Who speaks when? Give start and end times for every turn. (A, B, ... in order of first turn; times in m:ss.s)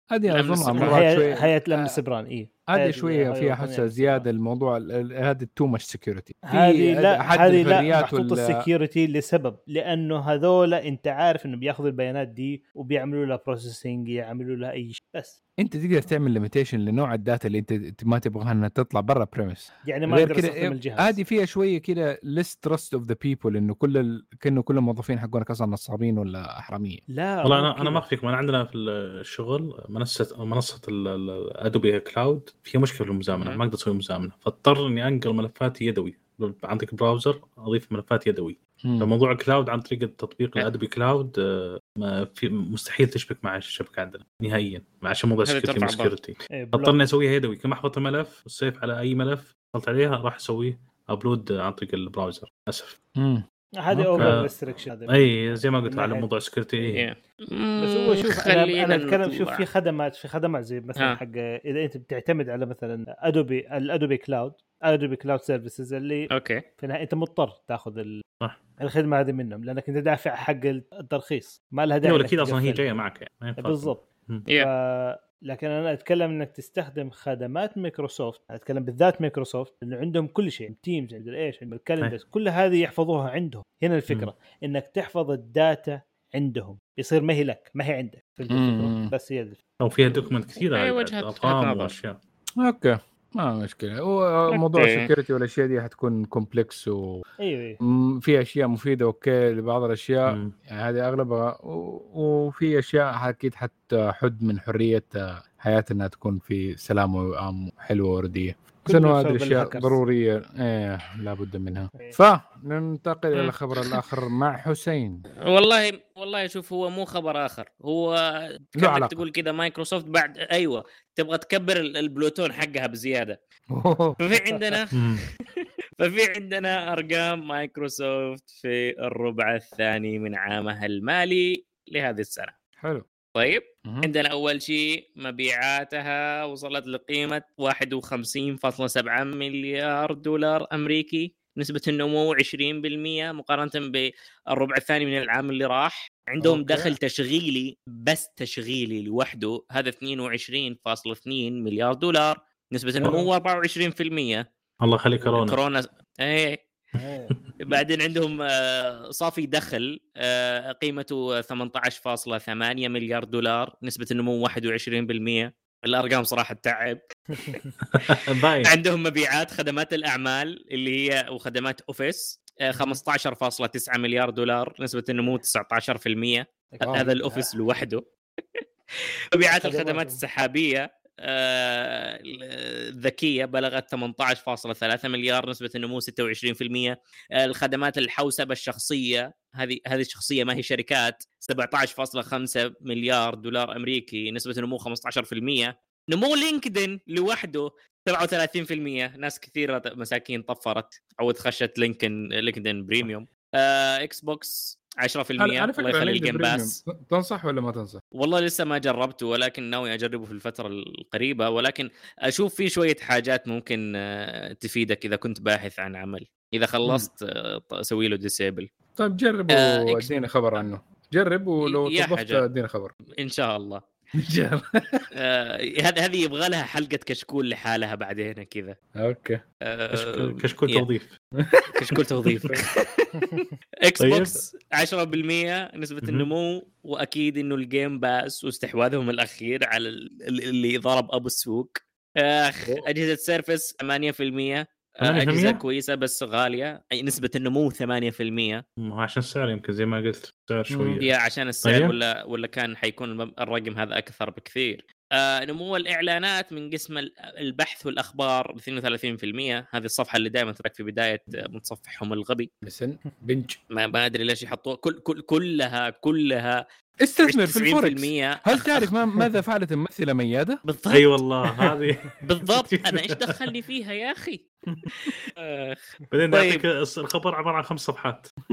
0:00.1-0:01.9 A
0:00.3-0:01.0 B
0:00.8-0:04.3 C
0:02.7-0:08.6 A
0:06.5-0:15.4 C
0:15.6-0:27.0 A
0:19.9-0:21.2 C
0:27.1-0:28.1 C
0:27.4-0:53.0 D
0:33.3-0:33.6 B
0:45.5-0:46.1 B
0:46.5-0:47.0 C
0:53.2-0:54.4 A
0:53.8-0:55.3 C
0:54.2-0:54.5 D
0:55.1-0:57.0 D
0:55.9-0:56.3 C
0:56.9-0:59.7 B
0:57.8-1:06.3 C
1:06.3-1:06.6 B
1:06.8-1:08.2 C
1:08.8-1:12.8 C
1:12.0-1:14.5 D
1:13.6-1:29.6 C
1:28.5-1:29.1 A
1:29.8-1:32.2 D
1:30.6-1:31.9 B
1:32.6-1:37.2 A
1:34.5-1:35.0 B
1:37.4-1:37.8 C
1:37.8-1:55.2 A
1:40.3-1:40.5 D
1:48.9-1:50.0 C
1:55.5-2:03.4 B
1:58.8-1:59.2 A
2:03.7-2:04.2 A
2:04.2-2:05.0 B
2:04.9-2:05.2 D
2:05.6-2:12.5 B
2:12.8-2:13.0 A
2:13.4-2:34.4 B
2:13.8-2:14.1 A
2:26.4-2:27.0 A
2:34.8-2:35.6 D
2:35.2-2:36.6 B
2:37.0-2:37.3 A
2:37.6-2:48.1 B
2:47.9-2:48.7 D
2:48.6-2:58.0 B
2:56.8-2:57.1 A
2:56.9-2:57.4 C
2:59.4-3:26.8 B
2:59.4-3:00.2 C
3:25.4-3:28.0 A
3:28.2-3:38.7 B
3:39.0-3:42.9 A
3:39.5-3:40.1 B
3:41.6-3:42.4 B
3:43.2-3:43.8 B
3:44.2-3:45.1 A
3:45.2-3:48.8 B
3:49.0-3:49.4 A
3:49.7-3:50.8 B
3:49.9-3:51.1 D
3:51.7-4:08.6 B
3:51.9-3:52.5 D
3:54.0-3:54.4 D
3:56.0-3:56.3 D
4:05.0-4:05.6 D
4:08.8-4:11.1 D
4:10.7-4:11.0 A
4:11.0-4:22.5 B
4:11.6-4:11.9 D
4:22.6-4:23.6 A
4:23.7-4:26.6 B
4:27.0-4:30.6 A
4:27.2-4:28.9 B
4:30.6-4:31.0 B
4:30.9-4:33.2 D
4:32.2-4:36.6 B
4:36.1-4:38.3 D